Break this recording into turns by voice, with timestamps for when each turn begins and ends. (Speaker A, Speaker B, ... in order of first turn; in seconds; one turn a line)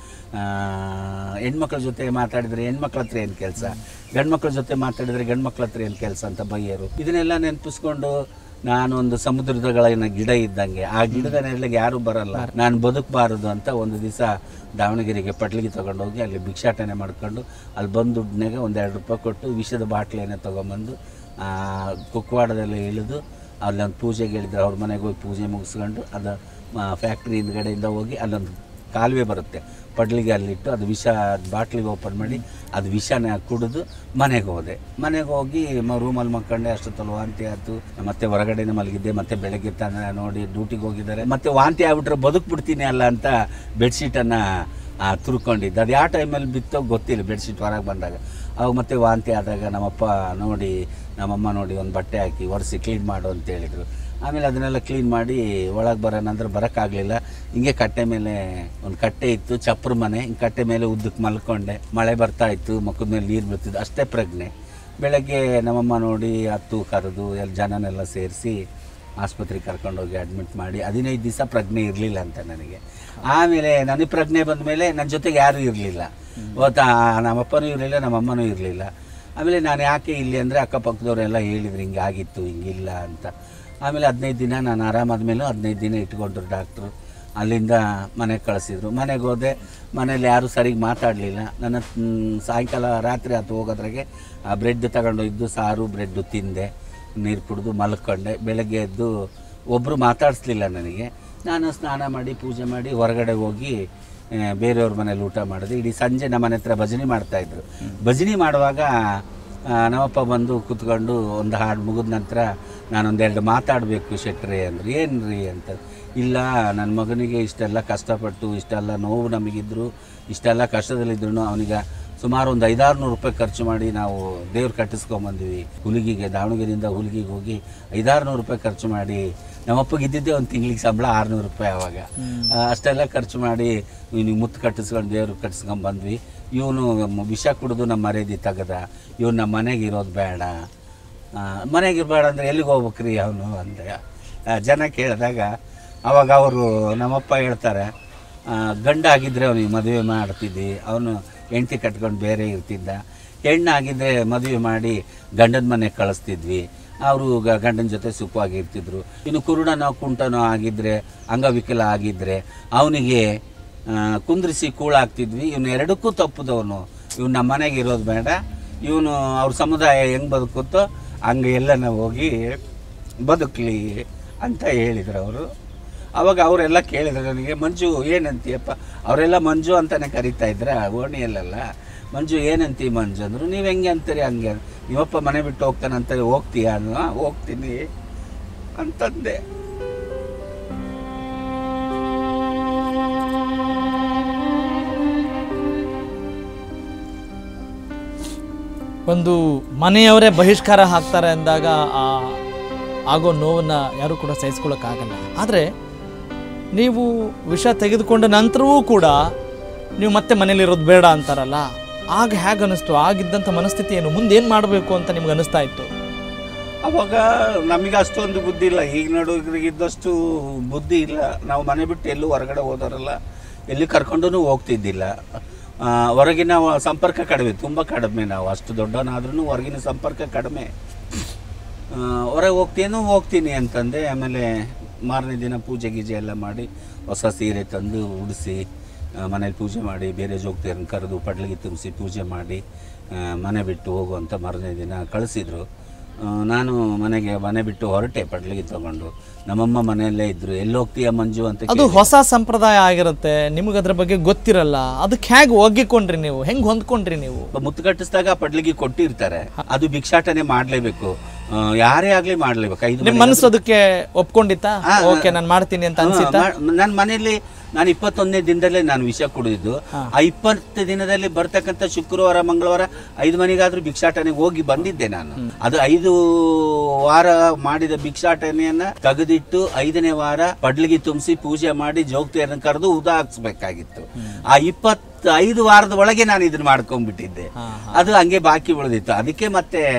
Speaker A: 0.3-8.1
Speaker A: 8.7-44.4
Speaker B: 11.1-11.4
Speaker A: 45.0-68.6
Speaker A: 69.2-78.9
Speaker B: 76.4-76.7
Speaker A: 79.4-83.3
Speaker A: 83.8-96.7
Speaker A: 97.2-99.1
Speaker A: 99.7-103.7
Speaker A: 104.4-108.9
Speaker A: 109.7-140.6
Speaker B: 132.2-132.5
Speaker A: 141.4-144.0
Speaker A: 144.5-145.5
Speaker A: 146.1-147.9
Speaker A: 148.5-163.2
Speaker A: 163.9-172.6
Speaker A: 173.3-175.5
Speaker A: 176.2-187.8
Speaker A: 188.8-189.4
Speaker B: 199.1-202.4
Speaker B: 203.1-205.7
Speaker B: 206.8-209.2
Speaker B: 210.0-215.9
Speaker A: 216.9-223.2
Speaker A: 223.7-225.1
Speaker A: 225.8-230.7
Speaker A: 231.9-234.5
Speaker A: 235.1-238.6
Speaker A: 239.2-242.6
Speaker A: 243.2-245.6
Speaker A: 246.2-252.1
Speaker B: 251.7-257.5
Speaker A: 257.6-263.5
Speaker B: 263.0-266.5
Speaker A: 264.9-265.3
Speaker A: 266.0-289.9
Speaker B: 287.6-288.1